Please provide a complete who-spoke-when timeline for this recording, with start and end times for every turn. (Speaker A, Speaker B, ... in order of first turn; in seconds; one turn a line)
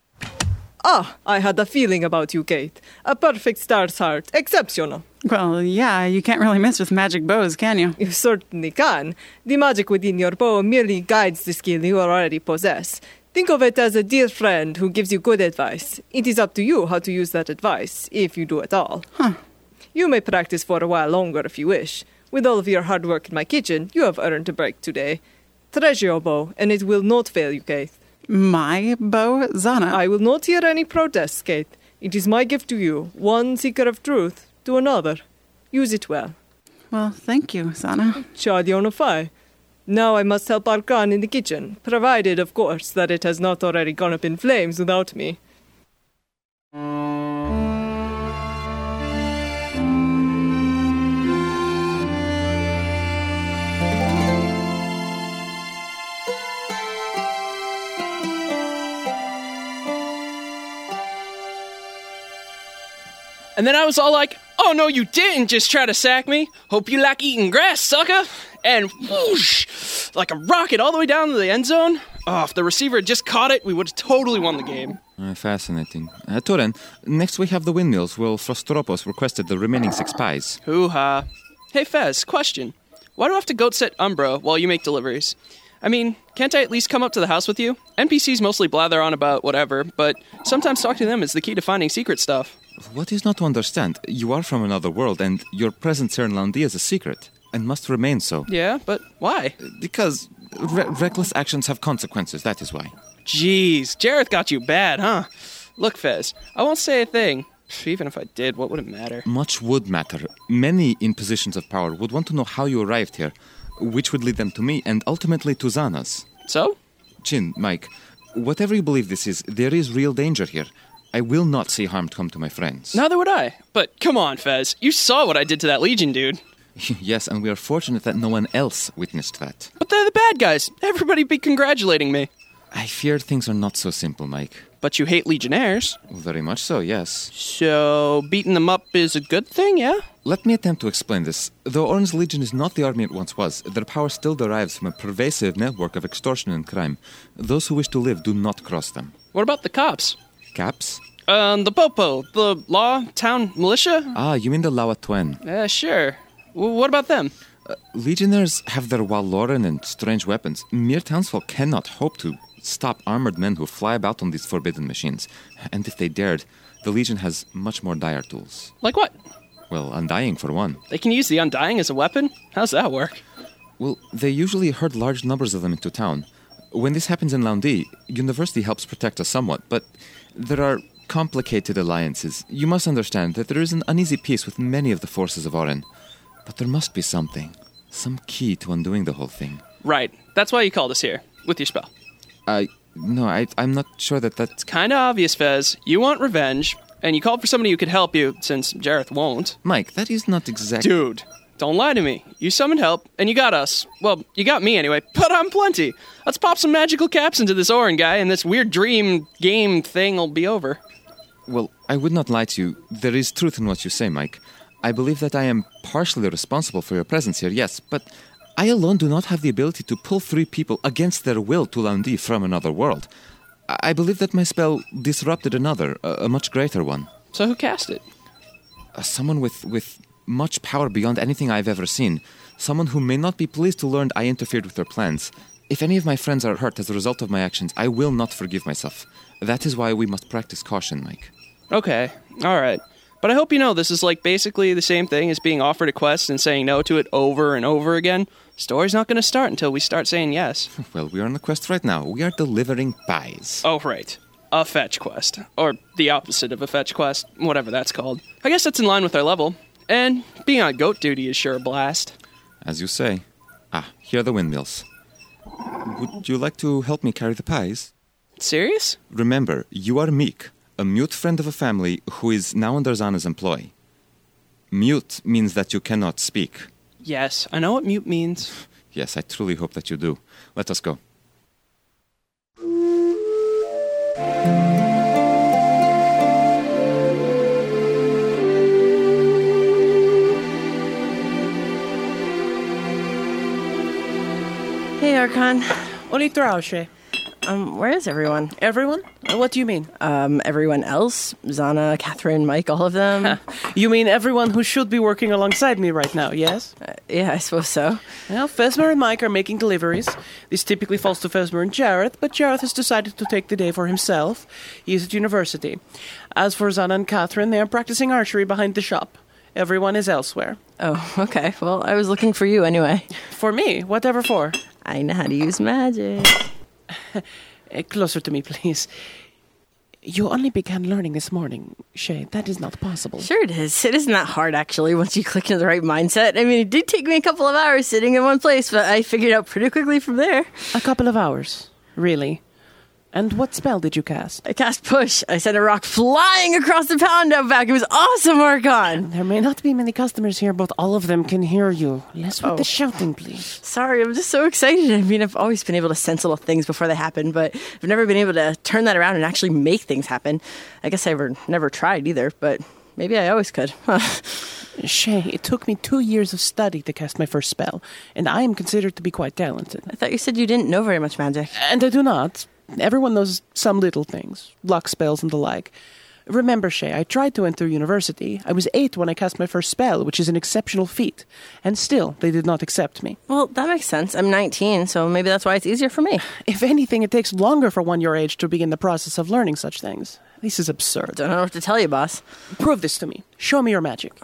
Speaker A: 0.8-5.0
Speaker B: 5.2-8.0
Speaker A: 8.0-19.1
Speaker A: 19.9-25.2
Speaker A: 25.7-27.9
Speaker B: 28.3-30.0
Speaker A: 29.9-35.2
Speaker A: 35.7-36.4
Speaker B: 36.9-38.2
Speaker A: 38.3-39.3
Speaker A: 39.9-45.4
Speaker C: 63.5-75.0
Speaker D: 75.2-80.6
Speaker C: 80.6-92.5
Speaker D: 92.8-98.5
Speaker C: 98.5-99.5
Speaker D: 99.6-102.9
Speaker C: 103.2-109.2
Speaker D: 109.2-116.3
Speaker C: 116.5-116.8
Speaker D: 117.2-123.0
Speaker C: 122.9-126.4
Speaker D: 126.8-129.7
Speaker C: 129.8-132.3
Speaker D: 132.7-134.6
Speaker C: 134.8-136.0
Speaker D: 136.1-137.3
Speaker C: 137.3-140.0
Speaker D: 140.2-149.1
Speaker C: 149.3-150.2
Speaker D: 150.5-151.0
Speaker C: 151.3-154.2
Speaker D: 154.1-155.4
Speaker C: 155.4-157.3
Speaker D: 157.7-168.7
Speaker C: 168.8-169.1
Speaker D: 169.7-170.8
Speaker C: 170.9-173.2
Speaker D: 173.8-185.9
Speaker D: 186.4-189.6
Speaker C: 189.8-191.9
Speaker D: 192.5-194.6
Speaker C: 194.6-199.6
Speaker D: 199.6-201.0
Speaker C: 200.8-210.8
Speaker D: 211.5-223.1
Speaker D: 223.7-227.1
Speaker C: 227.3-228.0
Speaker D: 228.9-241.3
Speaker C: 241.7-250.7
Speaker D: 250.8-253.6
Speaker C: 253.6-262.1
Speaker D: 262.6-264.9
Speaker D: 265.8-267.9
Speaker C: 268.4-269.0
Speaker D: 269.1-273.7
Speaker D: 274.7-276.7
Speaker C: 277.0-278.5
Speaker D: 278.9-281.0
Speaker E: 295.0-295.9
Speaker F: 296.1-296.9
Speaker E: 297.4-298.5
Speaker F: 298.6-299.9
Speaker E: 300.0-303.4
Speaker F: 303.2-306.7
Speaker E: 306.8-308.0
Speaker F: 308.3-315.8
Speaker F: 316.3-320.6
Speaker E: 320.8-323.1
Speaker F: 323.2-324.6
Speaker E: 324.8-326.4
Speaker F: 327.0-328.9
Speaker F: 330.0-333.3
Speaker E: 333.2-340.8
Speaker F: 340.7-342.4
Speaker F: 343.1-344.4
Speaker E: 344.4-349.1
Speaker F: 349.0-353.5
Speaker E: 353.6-364.6
Speaker F: 364.8-369.9
Speaker E: 369.9-371.5
Speaker F: 371.5-375.7
Speaker F: 376.3-383.2
Speaker E: 383.3-386.3
Speaker F: 386.3-391.2
Speaker E: 391.1-392.2
Speaker F: 392.5-394.1